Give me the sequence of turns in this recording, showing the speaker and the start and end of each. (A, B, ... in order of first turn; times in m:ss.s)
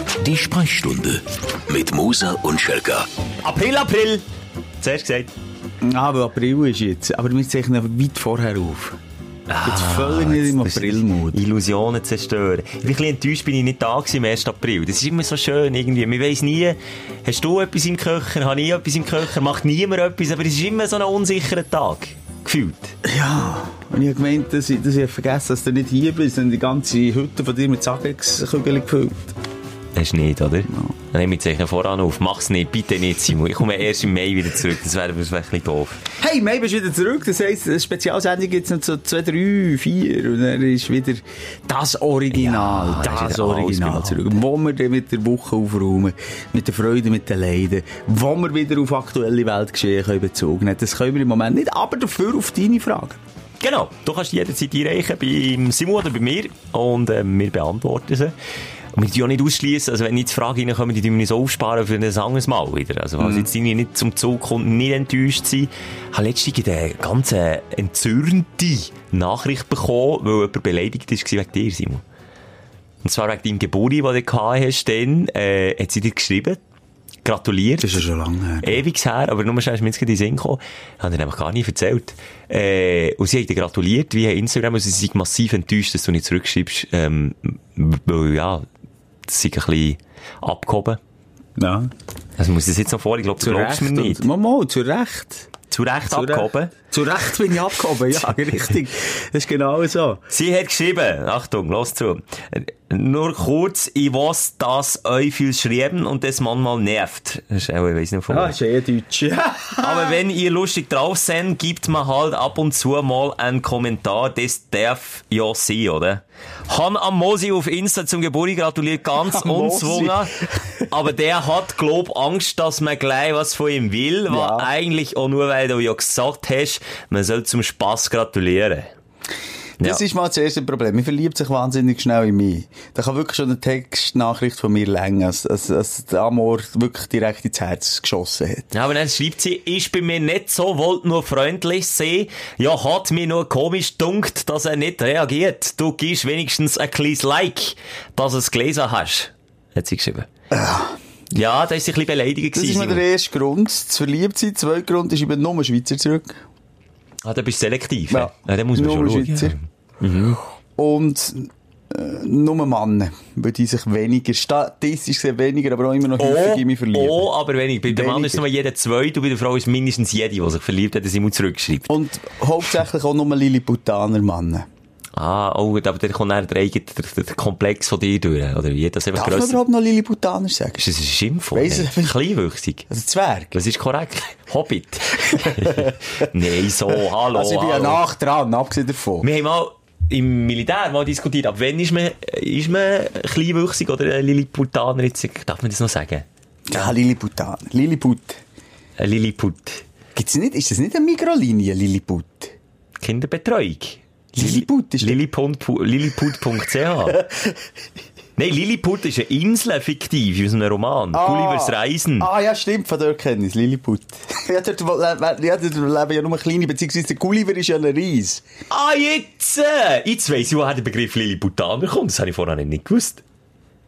0:00.2-0:03.1 A
0:03.4-0:04.2 B
0:04.8-0:05.3 B
0:05.8-0:09.0 C
0:09.5-0:23.0 B
0:09.6-0:11.4 C
0:23.0-0:29.4 C
0:30.0-0:36.0 B
0:36.2-0:53.2 C
0:42.3-0:44.3 B
0:53.6-0:58.3 B
0:58.9-1:12.0 B
1:03.2-1:03.5 C
1:13.0-1:16.6 B
1:17.2-1:18.0 B
1:17.8-1:18.8 C
1:18.6-1:28.7 B
1:29.3-1:31.0 B
1:31.6-1:31.9 C
1:32.4-1:34.2 B
1:33.4-1:35.5 C
1:35.7-1:36.7 B
1:36.1-1:40.2 C
1:40.3-1:48.6 B
1:48.3-1:50.2 C
1:49.8-2:00.3 B
1:59.2-2:00.9 C
2:00.9-2:08.9 B
2:04.3-2:04.7 C
2:09.8-2:18.7 C
2:18.7-2:30.3 B
2:30.5-2:31.0 C
2:31.3-2:33.0 B
2:32.5-2:36.4 C
2:37.2-2:40.4 B
2:38.1-2:39.6 C
2:40.8-2:47.3 C
2:46.2-2:51.9 B
2:47.9-2:48.4 C
2:51.9-2:54.7 C
2:55.2-2:59.6 B
2:59.1-3:00.8 C
3:00.8-3:02.9 B
3:01.5-3:02.2 C
3:02.9-3:03.6 C
3:03.5-3:08.0 B
3:05.2-3:06.3 C
3:06.9-3:09.3 C
3:09.2-3:16.9 B
3:16.7-3:18.4 C
3:19.0-3:19.8 B
3:20.2-3:22.5 C
3:23.0-3:27.2 B
3:24.3-3:25.2 C
3:27.1-3:27.6 C
3:28.4-3:32.3 B
3:31.1-3:38.4 C
3:38.7-3:43.2 B